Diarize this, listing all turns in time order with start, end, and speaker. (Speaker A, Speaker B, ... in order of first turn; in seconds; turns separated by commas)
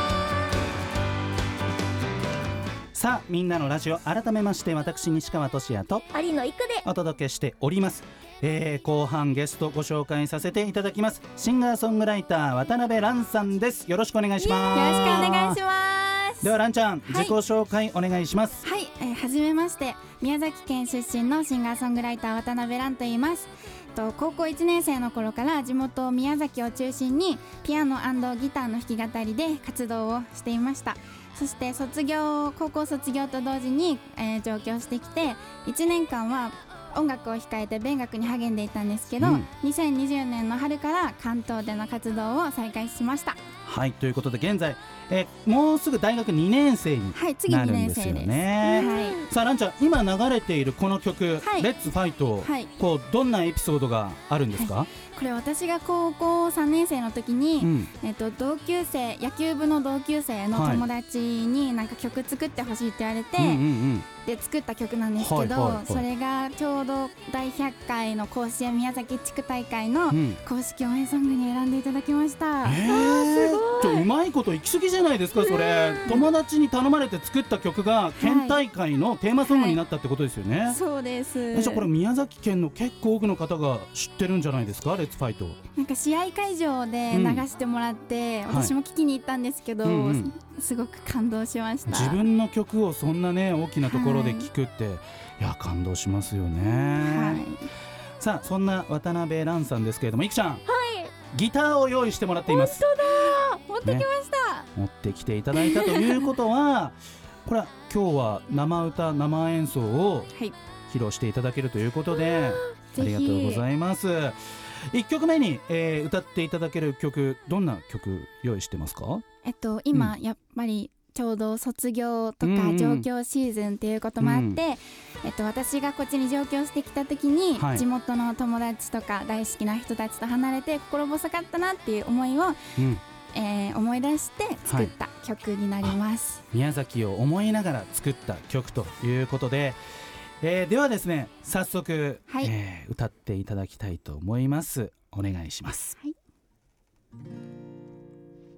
Speaker A: 2.9-6.1, Speaker B: 6.1-6.8, Speaker A: 6.8-15.6, Speaker C: 14.4-16.5, Speaker A: 16.4-18.6, Speaker C: 17.1-17.4, Speaker C: 18.6-43.4, Speaker A: 39.2-39.5, Speaker A: 43.6-54.9, Speaker C: 47.1-49.2, Speaker B: 48.6-49.2, Speaker C: 51.4-51.7, Speaker C: 52.4-52.7, Speaker C: 54.6-73.0, Speaker A: 57.6-57.9, Speaker A: 60.5-60.9, Speaker A: 63.4-64.1, Speaker A: 65.2-66.0, Speaker A: 70.1-70.4, Speaker A: 72.6-80.8, Speaker B: 72.9-74.1, Speaker C: 76.0-76.3, Speaker C: 78.2-78.6, Speaker C: 79.5-79.8, Speaker C: 80.7-81.9, Speaker A: 81.5-85.6, Speaker C: 85.8-92.2, Speaker A: 87.1-87.4, Speaker A: 89.8-90.3, Speaker A: 91.9-97.4, Speaker C: 93.9-94.5, Speaker C: 97.0-97.7, Speaker A: 98.2-100.6, Speaker B: 100.7-101.1, Speaker A: 101.3-102.8, Speaker B: 102.5-103.5, Speaker C: 103.0-104.7, Speaker A: 104.8-110.3, Speaker A: 110.9-119.2, Speaker C: 112.9-113.7, Speaker C: 119.4-132.8, Speaker A: 122.4-123.1, Speaker A: 124.2-124.6, Speaker A: 127.6-127.8, Speaker A: 132.8-133.0, Speaker C: 133.3-136.4, Speaker A: 134.7-134.9, Speaker A: 136.5-139.8, Speaker A: 140.4-146.0, Speaker C: 142.3-142.5